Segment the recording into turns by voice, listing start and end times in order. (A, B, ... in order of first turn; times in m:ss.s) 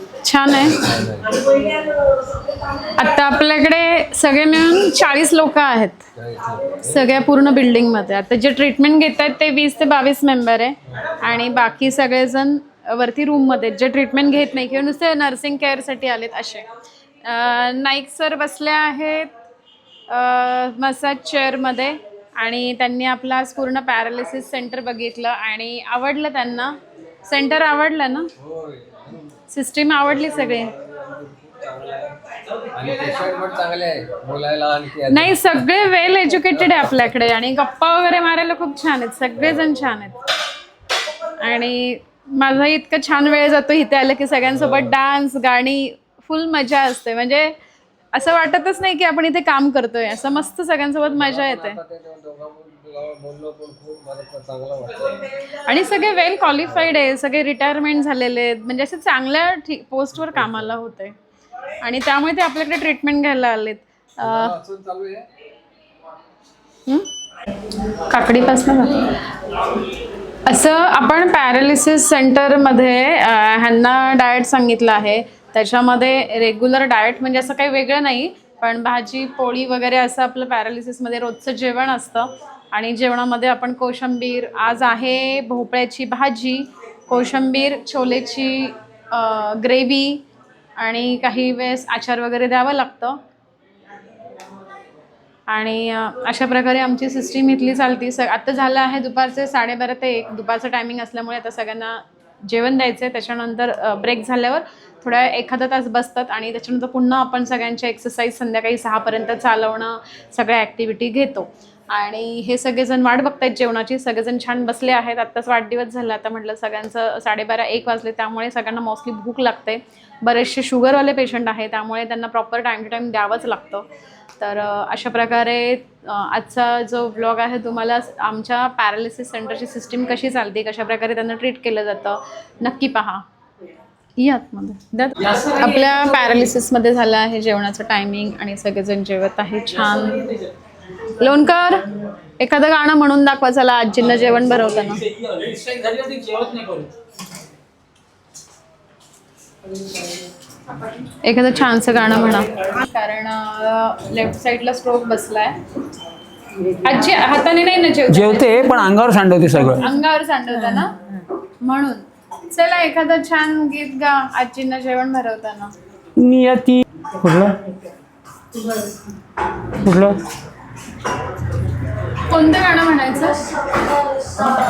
0:00.2-0:00.8 A
0:00.7-0:01.4 B
0:03.0-0:06.0 A
0:06.2-0:06.9 B
0:06.8-0:16.7 A
0:17.2-0:19.3 A
0:20.1-0:26.8 A
0:27.3-0:28.3 A
0:28.4-0:29.3 B
0:29.5-0:30.7 A
0:30.2-0:32.2 B
0:32.7-0:35.4 B
0:35.1-0:40.2 A
0:36.5-0:36.8 B
0:41.4-0:47.5 A
0:44.5-0:44.9 B
0:48.1-0:51.8 A
0:51.1-0:55.3 B
0:55.6-1:01.1 A
1:01.8-1:04.5 A
1:04.2-1:05.2 B
1:08.0-1:09.1 A
1:10.4-1:30.2 A
1:30.8-1:33.2 A
1:35.5-2:03.9 A
2:04.4-2:13.2 A
2:14.2-2:20.3 A
2:21.2-2:21.8 A
2:22.4-2:25.0 A
2:24.8-2:26.9 C
2:31.2-2:35.6 A
2:36.8-2:38.9 A
2:38.1-2:39.9 C
2:39.7-2:40.9 A
2:41.6-2:45.7 A
2:46.2-2:47.6 C
2:49.7-2:50.2 C
2:52.2-2:53.4 A